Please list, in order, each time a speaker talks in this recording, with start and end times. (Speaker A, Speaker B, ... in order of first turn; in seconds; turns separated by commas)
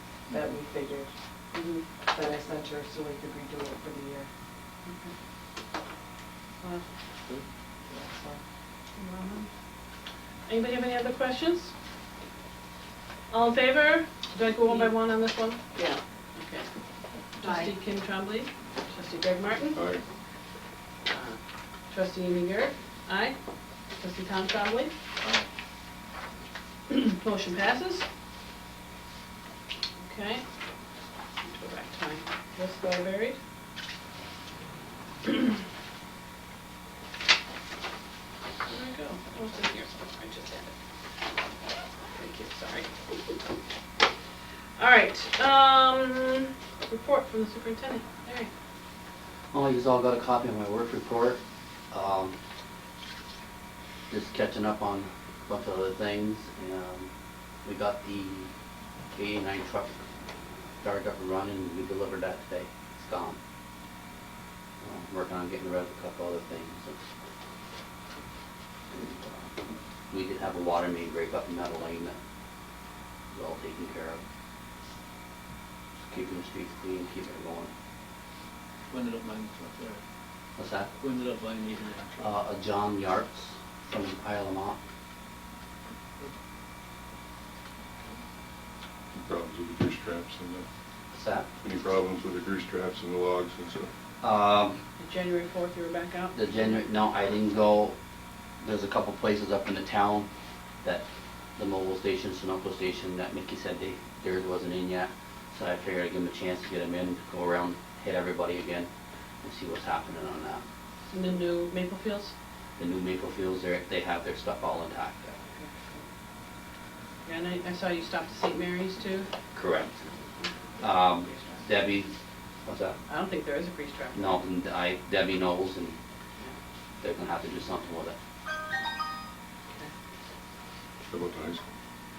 Speaker A: 0.3-1.1, Speaker B: 1.5-1.8, Speaker A: 2.1-4.3, Speaker B: 4.9-5.1, Speaker A: 7.9-8.4, Speaker B: 10.5-11.7, Speaker B: 13.3-15.6, Speaker B: 16.4-16.7, Speaker B: 17.4-19.8, Speaker A: 17.4-17.7, Speaker C: 19.7-20.0, Speaker B: 21.1-23.4, Speaker B: 23.9-24.9, Speaker D: 25.2-25.5, Speaker B: 26.9-28.1, Speaker B: 30.0-30.4, Speaker B: 31.4-33.4, Speaker B: 38.6-40.7, Speaker B: 42.1-42.9, Speaker B: 44.8-48.5, Speaker E: 49.5-52.4, Speaker E: 54.1-57.1, Speaker E: 57.6-58.5, Speaker E: 59.1-60.0, Speaker E: 60.8-63.4, Speaker E: 64.8-67.0, Speaker E: 68.9-72.2, Speaker E: 73.3-74.2, Speaker E: 76.0-77.7, Speaker D: 78.9-80.0, Speaker E: 80.6-80.9, Speaker D: 81.0-82.3, Speaker E: 82.2-84.8, Speaker C: 89.1-90.7, Speaker E: 91.1-91.5, Speaker C: 91.6-93.9, Speaker E: 94.2-94.8, Speaker B: 95.0-96.4, Speaker E: 96.3-98.0, Speaker E: 98.6-100.3, Speaker E: 101.6-108.9, Speaker E: 109.4-110.6, Speaker B: 111.1-112.3, Speaker E: 112.8-115.4, Speaker B: 115.5-116.0, Speaker B: 117.2-119.3, Speaker E: 119.5-120.0, Speaker E: 120.8-122.1, Speaker E: 122.7-123.0, Speaker B: 123.1-124.4, Speaker E: 124.1-126.0, Speaker E: 127.0-128.2, Speaker C: 131.1-131.6